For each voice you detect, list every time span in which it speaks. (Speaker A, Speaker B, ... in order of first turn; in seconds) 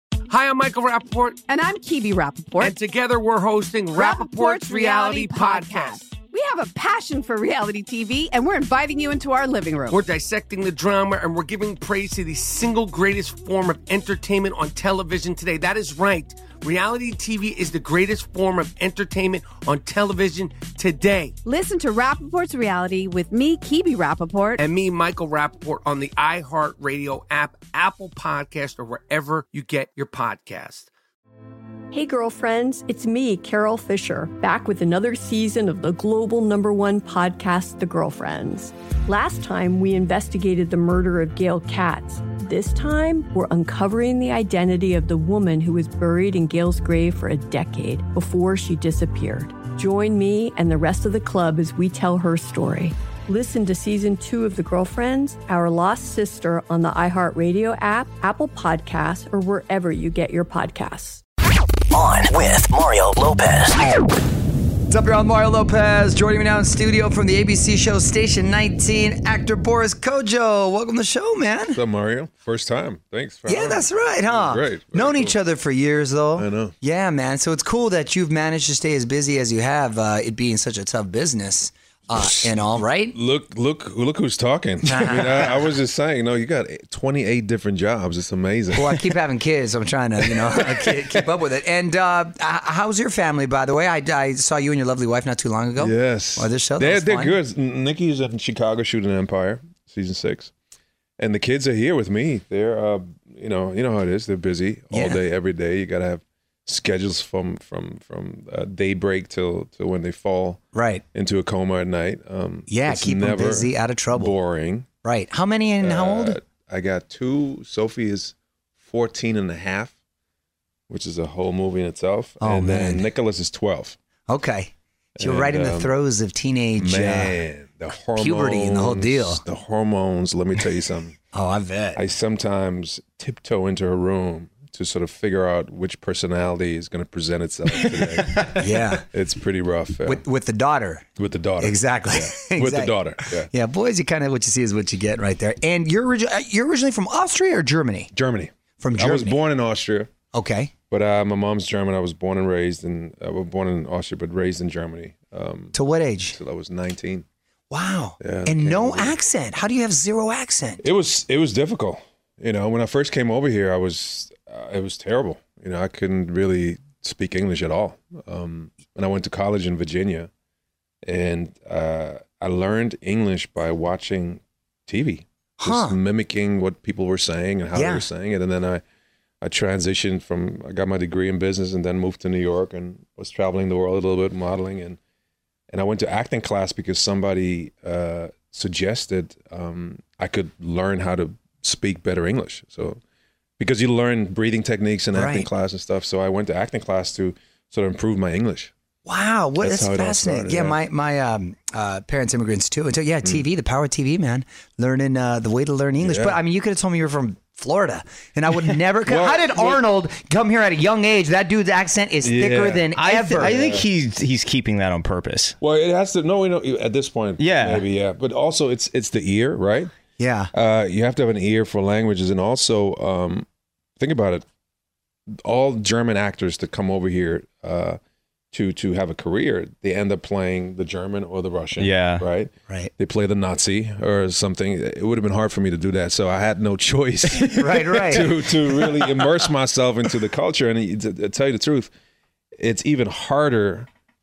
Speaker A: 0.3-1.4, 2.6-6.0, 9.9-21.4, 24.6-30.9
Speaker B: 1.5-2.8, 4.0-10.0, 21.4-24.6
Speaker C: 31.9-61.2
Speaker D: 61.9-64.0
Speaker E: 64.9-71.8, 73.5-83.2, 84.8-85.6, 88.7-97.4, 104.9-105.2, 110.7-111.0, 112.7-114.3, 115.0-116.4, 122.4-123.1, 124.3-127.4, 128.2-129.4, 131.3-132.0, 138.3-139.1, 140.1-141.1, 141.6-148.1, 148.8-149.4, 150.3-150.7, 155.7-156.4, 157.7-160.8, 175.6-176.0, 177.8-178.1, 195.1-195.5, 199.1-213.6, 220.2-220.5, 237.6-238.3
Speaker F: 71.7-75.4, 76.4-76.8, 82.2-82.5, 83.1-89.2, 90.2-91.3, 95.8-100.5, 101.2-110.6, 111.1-114.9, 115.8-119.9, 120.9-124.0, 125.2-126.0, 126.8-131.2, 131.9-140.2, 141.2-143.5, 148.1-150.1, 150.9-155.8, 156.3-157.2, 158.2-159.2, 160.8-170.3, 171.1-178.8, 179.4-185.0, 185.7-193.0, 193.6-198.7, 199.6-200.8, 206.0-206.4, 209.1-209.8, 212.2-213.9, 215.6-219.9, 220.5-223.5, 224.0-224.4, 225.3-228.0, 228.5-241.9, 242.6-243.9
Speaker G: 213.0-215.6, 217.4-217.8, 231.8-232.2